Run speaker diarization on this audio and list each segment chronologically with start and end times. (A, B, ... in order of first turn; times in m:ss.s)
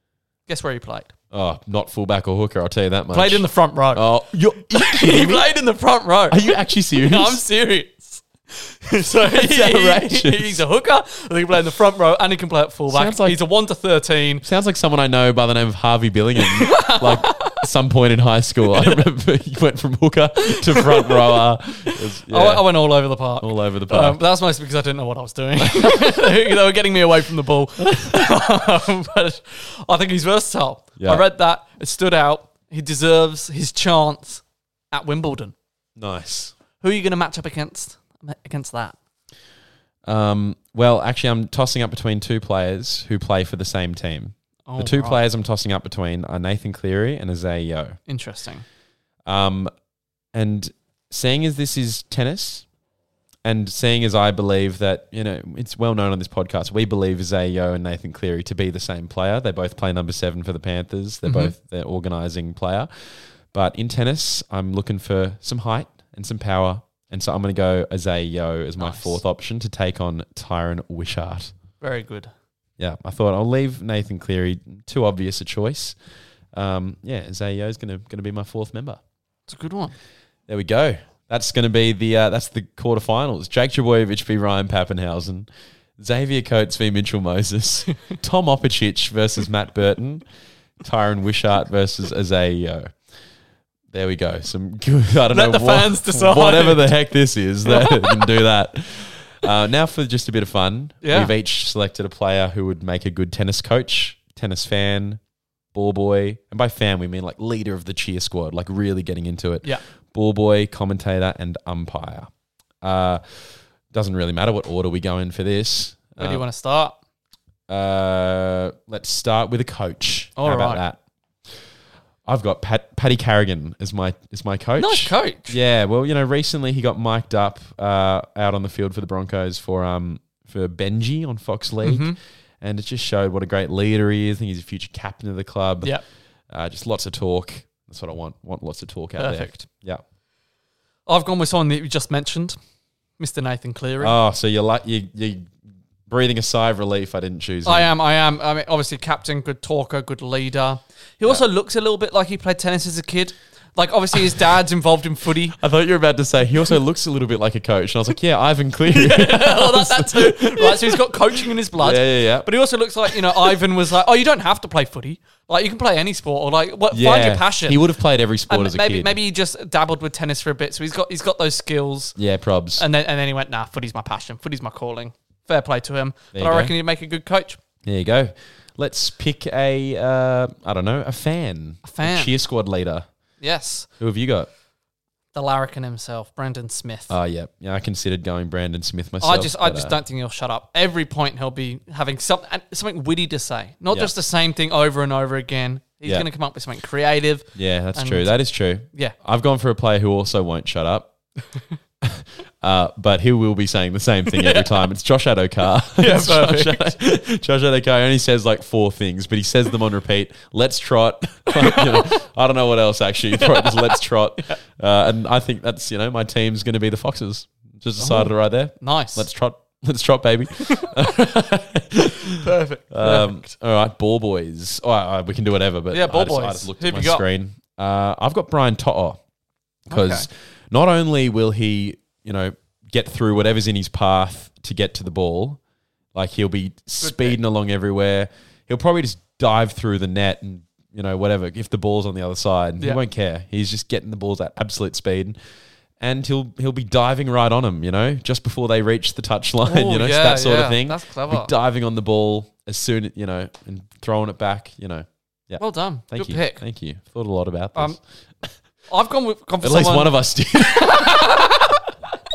0:00.5-0:01.1 A
0:01.3-0:05.5 B
0:03.1-0:04.1 A
0:04.7-0:14.4 A
0:06.3-0:07.4 B
0:09.2-0:10.6 B
0:12.9-0:13.4 B
0:14.4-0:22.7 B
0:16.5-0:17.6 A
0:18.8-0:19.0 A
0:20.5-0:35.5 A
0:23.4-0:24.2 B
0:25.6-0:26.0 B
0:31.0-0:31.2 B
0:36.0-0:36.5 B
0:36.8-0:39.0 A
0:40.0-0:48.0 B
0:44.7-0:45.2 A
0:48.1-0:48.6 A
0:49.2-0:49.7 B
0:50.3-0:52.6 B
0:53.4-1:02.9 B
1:01.2-1:01.5 A
1:03.5-1:11.5 B
1:08.8-1:09.2 A
1:11.8-1:12.3 A
1:12.8-1:16.0 B
1:16.5-1:19.0 B
1:19.5-1:19.9 A
1:20.5-1:30.2 B
1:30.8-1:32.9 B
1:33.9-1:45.2 B
1:35.3-1:37.0 A
1:37.7-1:38.3 A
1:41.0-1:41.3 A
1:45.7-1:52.3 B
1:52.8-1:56.4 B
1:56.2-1:57.0 A
1:57.7-2:01.6 B
2:00.4-2:00.8 A
2:02.2-2:16.0 B
2:04.8-2:05.6 A
2:11.8-2:12.2 A
2:16.5-2:20.0 B
2:19.2-2:19.7 A
2:21.1-2:22.6 A
2:23.2-2:24.2 A
2:24.0-2:25.5 B
2:26.1-2:27.9 B
2:27.6-2:35.6 A
2:35.6-2:42.5 B
2:38.9-2:47.8 A
2:43.0-2:43.6 B
2:46.9-2:49.2 B
2:48.5-2:52.2 A
2:52.2-2:52.8 B
2:52.8-2:57.6 A
2:56.3-2:56.7 B
2:57.8-3:03.1 B
3:01.8-3:02.3 A
3:03.4-3:03.9 A
3:04.0-3:04.5 B
3:05.3-3:07.1 A
3:07.1-3:10.0 B
3:09.2-3:18.4 A
3:17.5-3:21.1 B
3:18.9-3:19.2 A
3:22.0-3:49.2 B
3:24.3-3:24.7 A
3:26.0-3:27.0 A
3:31.6-3:32.1 A
3:33.4-3:34.6 A
3:38.0-3:39.3 A
3:42.4-3:43.5 A
3:45.9-3:47.2 A
3:49.9-3:55.6 B
3:49.9-3:50.3 A
3:56.1-4:05.4 B
3:57.0-3:57.4 A
4:06.0-4:18.0 B
4:09.6-4:11.5 A
4:15.6-4:16.6 A
4:18.9-4:20.2 A
4:19.6-4:21.3 B
4:20.7-4:21.7 A